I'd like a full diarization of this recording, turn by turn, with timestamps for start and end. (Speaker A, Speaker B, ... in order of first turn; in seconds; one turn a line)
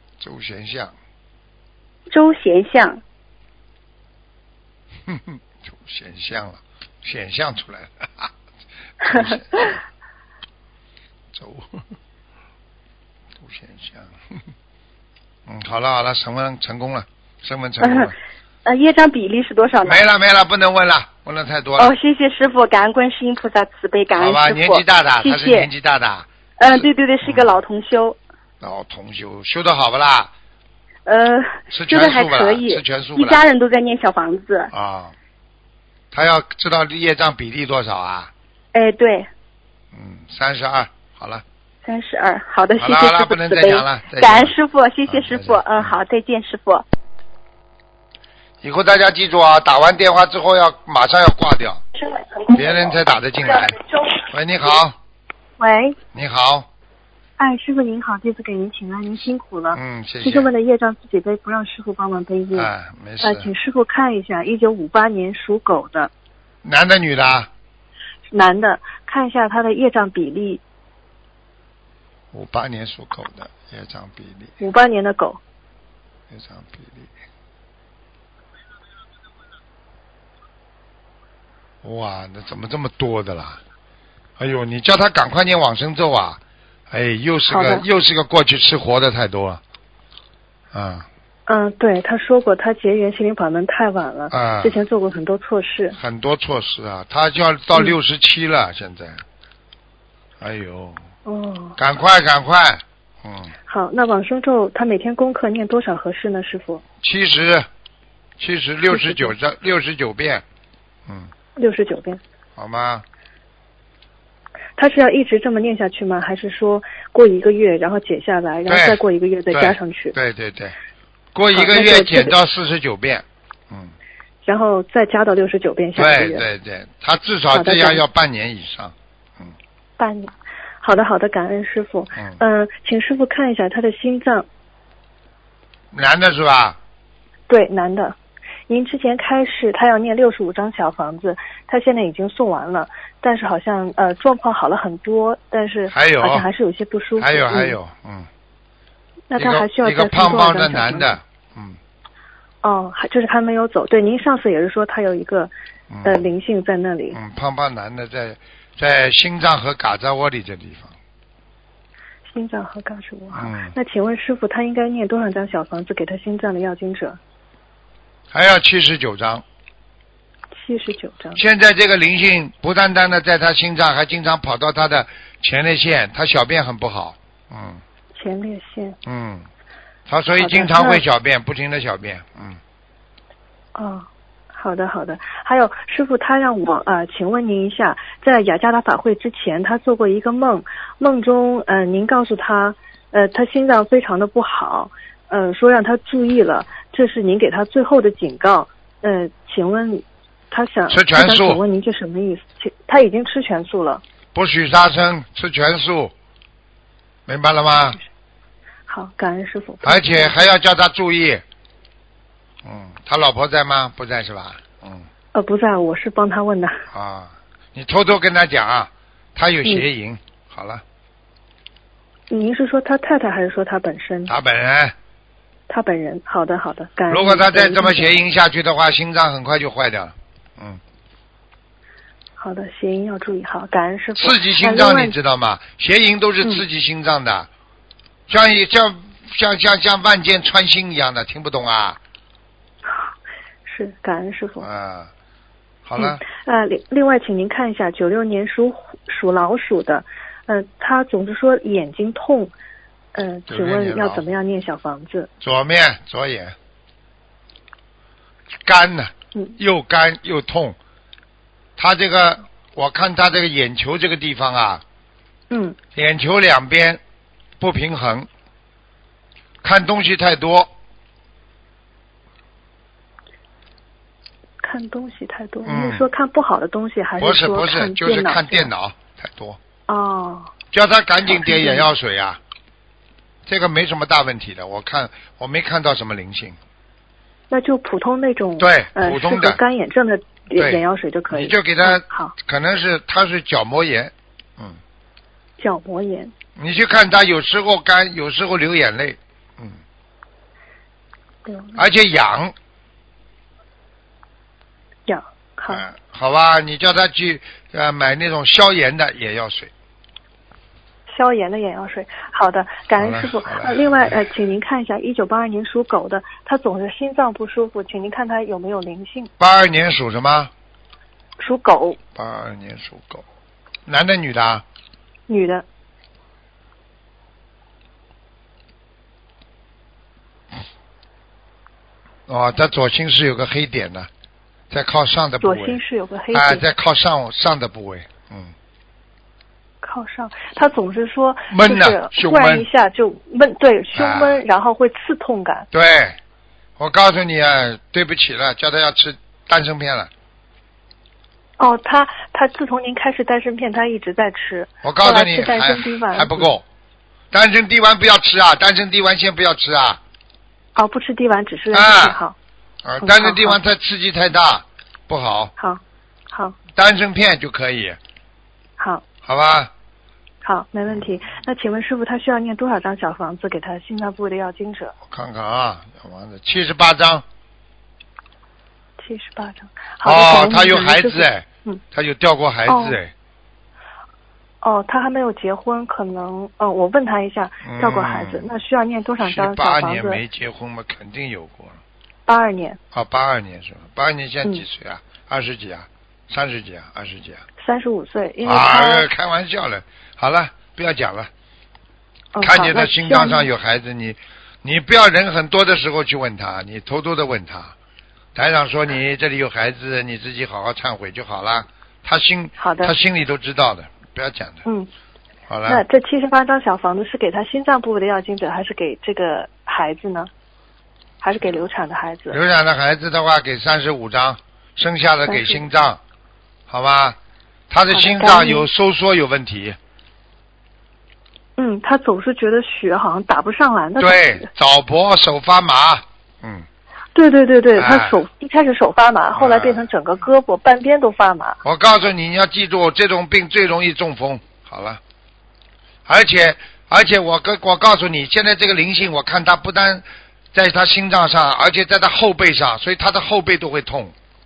Speaker A: 0.2-0.9
Speaker B: 2.1-3.0
Speaker A: 5.1-8.3
Speaker A: 9.0-9.8
Speaker B: 9.0-9.7
Speaker A: 11.3-11.8
Speaker A: 13.4-14.2
Speaker A: 15.4-18.1
Speaker B: 17.8-20.0
Speaker A: 19.8-21.9
Speaker B: 21.8-25.7
Speaker A: 24.1-27.5
Speaker B: 26.6-28.2
Speaker A: 28.6-30.3
Speaker B: 31.1-34.7
Speaker A: 31.7-33.4
Speaker A: 34.7-35.1
Speaker A: 36.1-38.3
Speaker B: 38.7-39.3
Speaker A: 39.9-41.4
Speaker B: 41.8-46.8
Speaker A: 42.8-44.5
Speaker A: 45.1-46.0
Speaker A: 48.6-51.8
Speaker B: 52.0-53.0
Speaker A: 52.5-55.0
Speaker B: 53.5-54.2
Speaker C: 55.6-56.0
Speaker A: 56.1-56.7
Speaker C: 57.4-62.7
Speaker A: 59.7-60.5
Speaker A: 62.5-63.5
Speaker C: 63.2-66.1
Speaker A: 66.6-67.5
Speaker C: 68.3-70.6
Speaker A: 72.3-74.5
Speaker C: 74.6-75.4
Speaker A: 76.3-77.1
Speaker A: 81.8-83.6
Speaker A: 84.4-89.6
Speaker C: 87.5-87.8
Speaker A: 90.7-91.1
Speaker C: 91.5-96.0
Speaker A: 94.3-94.8
Speaker A: 95.9-99.2
Speaker A: 100.4-101.0
Speaker C: 101.2-101.8
Speaker A: 101.8-103.5
Speaker C: 103.7-106.8
Speaker A: 107.0-107.7
Speaker A: 108.4-110.4
Speaker C: 108.9-109.3
Speaker C: 111.6-112.2
Speaker A: 112.5-113.0
Speaker C: 114.8-120.2
Speaker A: 118.7-120.8
Speaker A: 121.3-123.9
Speaker C: 121.5-122.3
Speaker C: 124.4-126.4
Speaker A: 126.0-129.5
Speaker C: 127.5-128.0
Speaker C: 130.0-134.5
Speaker A: 135.9-136.8
Speaker C: 137.5-138.2
Speaker C: 138.7-147.8
Speaker A: 145.9-146.4
Speaker A: 147.2-148.3
Speaker C: 149.3-151.2
Speaker A: 149.3-151.8
Speaker C: 152.6-155.5
Speaker A: 155.9-156.3
Speaker C: 156.0-157.2
Speaker A: 157.1-160.9
Speaker C: 162.3-167.2
Speaker A: 163.3-163.7
Speaker A: 168.3-169.4
Speaker C: 170.6-171.4
Speaker A: 171.4-177.8
Speaker C: 178.1-179.0
Speaker A: 179.0-179.5
Speaker A: 180.1-182.6
Speaker C: 180.4-181.0
Speaker C: 183.7-204.0
Speaker A: 200.9-201.6
Speaker A: 204.3-206.1
Speaker A: 207.3-208.0
Speaker C: 208.9-210.5
Speaker A: 209.8-211.4
Speaker A: 212.6-215.1
Speaker C: 215.3-216.8
Speaker A: 216.9-220.8
Speaker C: 222.3-224.3
Speaker A: 224.3-224.9
Speaker C: 225.7-228.1
Speaker A: 227.1-230.8
Speaker C: 232.4-235.1
Speaker A: 234.2-237.5
Speaker A: 238.3-242.0
Speaker C: 243.7-244.7
Speaker A: 244.6-245.1
Speaker A: 245.8-246.2
Speaker C: 246.0-252.5
Speaker C: 253.1-255.3
Speaker A: 253.5-254.2
Speaker A: 255.4-256.5
Speaker A: 258.6-260.8
Speaker A: 261.8-264.8
Speaker C: 265.5-265.8
Speaker A: 265.9-267.0
Speaker A: 267.6-268.3
Speaker A: 269.6-270.7
Speaker C: 274.6-278.7
Speaker A: 275.6-276.1
Speaker A: 277.2-279.6
Speaker C: 279.9-280.5
Speaker A: 280.7-282.4
Speaker C: 281.2-281.9
Speaker A: 283.4-286.6
Speaker C: 287.5-292.3
Speaker A: 288.6-289.6
Speaker A: 290.6-294.8
Speaker C: 295.6-296.3
Speaker A: 296.6-299.8
Speaker C: 301.4-301.8
Speaker A: 301.7-302.5
Speaker C: 305.1-305.8
Speaker A: 305.7-309.7
Speaker C: 311.1-319.3
Speaker A: 313.0-314.2
Speaker A: 319.4-320.5
Speaker C: 321.4-322.0
Speaker A: 322.1-323.2
Speaker A: 323.9-324.6
Speaker C: 325.3-325.6
Speaker A: 332.3-334.1
Speaker A: 334.7-335.8
Speaker C: 335.4-336.6
Speaker A: 336.3-338.5
Speaker C: 339.8-345.7
Speaker A: 341.5-342.6
Speaker A: 343.9-344.4
Speaker A: 345.7-346.2
Speaker A: 346.8-350.1
Speaker C: 351.6-356.5
Speaker A: 354.8-356.6
Speaker A: 357.3-360.0
Speaker C: 360.8-362.4
Speaker A: 361.7-362.2
Speaker A: 362.8-365.5
Speaker C: 363.0-363.6
Speaker C: 365.6-366.6
Speaker A: 366.8-368.0
Speaker C: 368.8-369.0
Speaker A: 369.2-369.7
Speaker C: 370.4-374.9
Speaker A: 375.1-377.2
Speaker C: 379.0-381.8
Speaker A: 380.0-383.1
Speaker C: 382.7-383.0
Speaker C: 384.6-390.2
Speaker A: 387.6-388.5
Speaker A: 389.2-391.8
Speaker C: 392.3-392.8
Speaker A: 392.9-397.4
Speaker C: 397.6-399.1
Speaker A: 398.4-401.3
Speaker C: 402.3-403.5
Speaker A: 402.4-407.7
Speaker A: 408.3-414.6
Speaker C: 412.6-412.9
Speaker A: 415.5-415.8
Speaker C: 415.7-420.3
Speaker C: 421.2-422.4
Speaker A: 422.3-426.0
Speaker C: 425.3-425.6
Speaker A: 426.7-427.2
Speaker A: 427.7-429.8
Speaker C: 427.9-428.7
Speaker C: 431.6-434.5
Speaker A: 434.0-436.6
Speaker C: 437.1-441.6
Speaker A: 437.8-438.2
Speaker A: 439.3-439.8
Speaker A: 441.6-445.0
Speaker A: 446.1-454.1